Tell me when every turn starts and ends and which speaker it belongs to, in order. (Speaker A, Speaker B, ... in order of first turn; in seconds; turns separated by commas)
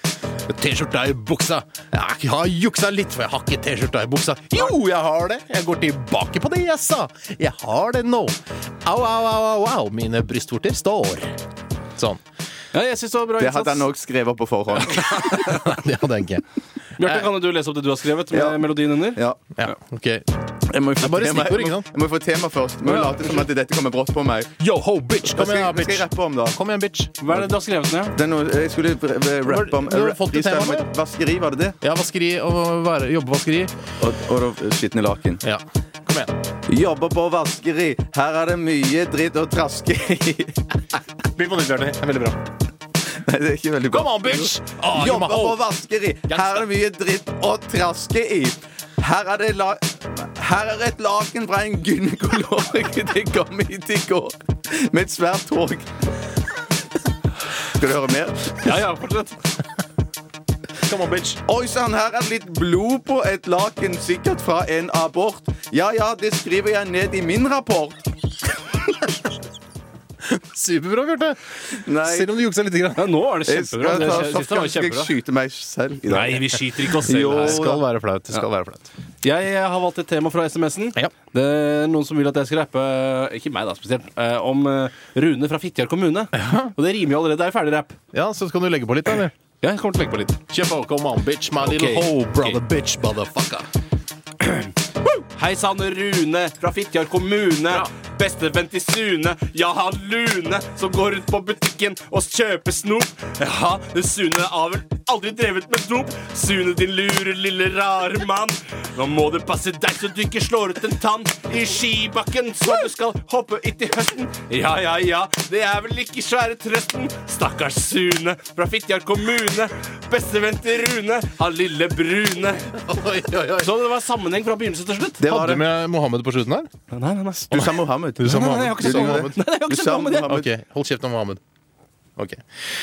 Speaker A: 0.4-11.3, Speaker A: 11.9-12.2, Speaker B: 12.7-13.9, Speaker C: 13.4-15.2, Speaker A: 15.0-16.4, Speaker B: 15.0-15.7, Speaker B: 17.0-19.2, Speaker C: 18.3-19.4, Speaker A: 19.6-20.2, Speaker C: 20.7-24.5, Speaker A: 21.0-21.9, Speaker B: 22.9-23.5, Speaker A: 24.6-27.2, Speaker C: 25.2-26.6, Speaker B: 27.2-28.1, Speaker C: 28.1-31.8, Speaker A: 29.4-30.9, Speaker A: 31.8-33.8, Speaker C: 34.0-35.4, Speaker A: 35.4-36.3, Speaker C: 36.7-40.6, Speaker A: 41.3-42.4, Speaker C: 43.2-55.9, Speaker A: 43.9-45.6, Speaker C: 57.7-58.7, Speaker B: 58.6-59.4, Speaker A: 60.8-61.4, Speaker C: 61.5-68.0, Speaker A: 70.3-73.1, Speaker C: 71.8-72.3, Speaker B: 73.0-75.1, Speaker C: 73.4-77.8, Speaker B: 76.0-77.6, Speaker A: 77.0-78.9, Speaker B: 79.2-88.0, Speaker A: 86.3-86.7, Speaker A: 88.1-89.3, Speaker B: 89.6-90.4, Speaker A: 90.5-93.7, Speaker B: 91.6-92.6, Speaker B: 94.4-125.2, Speaker A: 122.8-123.7, Speaker C: 125.2-125.6, Speaker A: 125.2-126.7, Speaker B: 126.9-130.4, Speaker C: 127.5-130.5, Speaker A: 127.5-129.4, Speaker A: 130.2-131.4